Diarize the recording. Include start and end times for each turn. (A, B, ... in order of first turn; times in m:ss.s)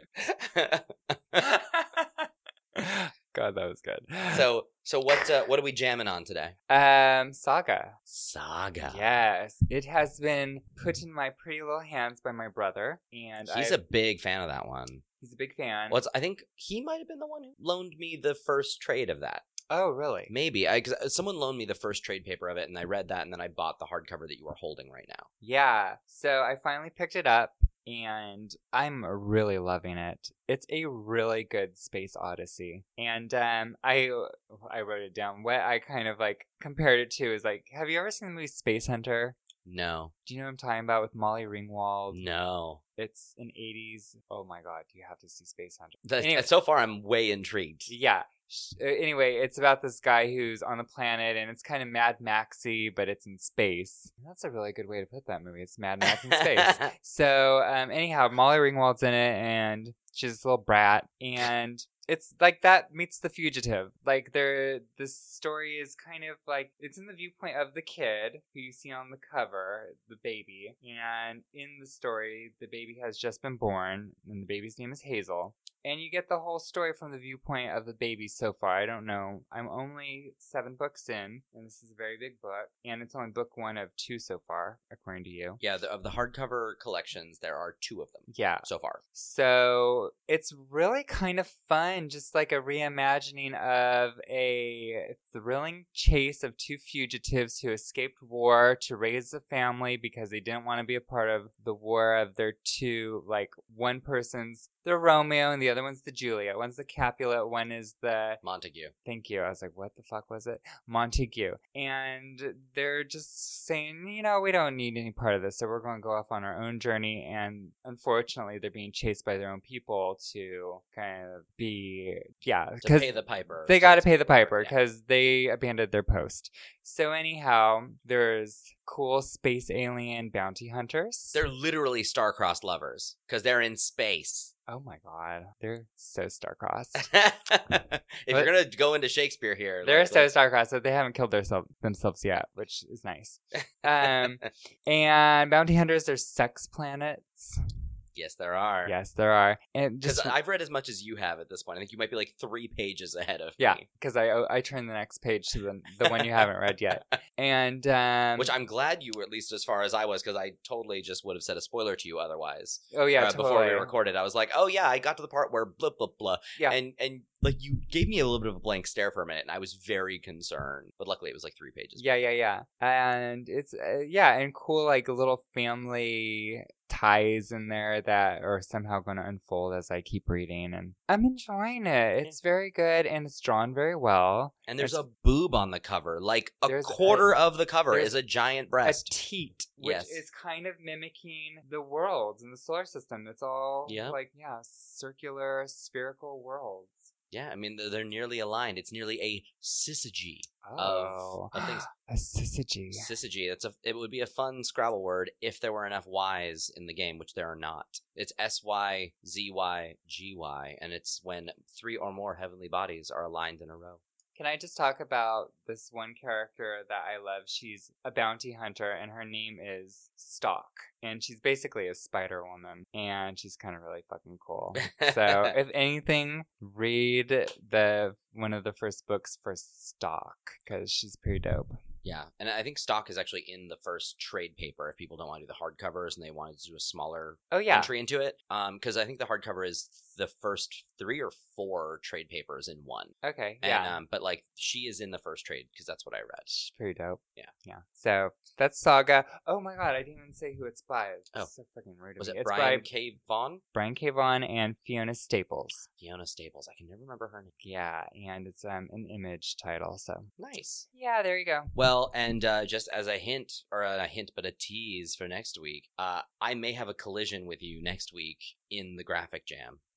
0:00.2-0:01.5 A
0:01.4-0:04.4 B
0:04.3-0:06.5 A
0:06.7-0:08.0 B
0:08.1-0:09.0 A
0:08.8-0:13.8 B
0:13.5-0:15.0 A
0:15.2-0:16.0 B
0:15.9-0:19.4 A
0:19.7-0:20.3 B
0:20.3-0:25.3 A
0:25.4-0:39.4 B
0:39.6-0:40.1 A
0:40.2-0:42.2 B
0:42.1-0:42.8 A
0:43.0-0:46.5 B
0:46.0-0:47.9 A
0:47.9-1:25.6 B
0:56.0-0:56.9 A
1:25.6-1:29.0 A
1:28.3-1:48.4 B
1:48.4-1:48.9 A
1:49.0-2:11.4 B
2:02.8-2:04.7 A
2:11.3-2:14.5 A
2:14.7-2:17.1 B
2:17.0-2:20.3 A
2:19.8-2:27.6 B
2:24.0-2:24.4 A
2:28.1-2:28.9 A
2:28.8-2:30.3 B
2:30.0-2:33.8 A
2:33.6-2:38.5 B
2:36.0-2:36.4 A
2:38.4-2:52.0 A
2:42.9-2:43.9 B
2:52.0-3:05.0 B
3:04.7-3:09.1 A
3:06.7-3:07.3 B
3:07.9-3:08.1 B
3:08.8-3:17.1 B
3:09.8-3:10.2 A
3:13.9-3:14.2 A
3:17.3-3:21.9 A
3:20.6-3:23.1 B
3:22.9-3:34.0 A
3:34.4-3:51.8 B
3:44.8-3:45.5 A
3:52.0-4:06.5 A
3:57.5-3:57.9 B
4:03.2-4:04.0 B
4:06.5-4:12.9 B
4:12.2-4:13.6 A
4:13.7-4:15.9 B
4:16.0-4:17.5 A
4:17.6-4:20.3 B
4:20.4-4:20.8 A
4:20.9-4:21.7 B
4:21.7-4:29.8 A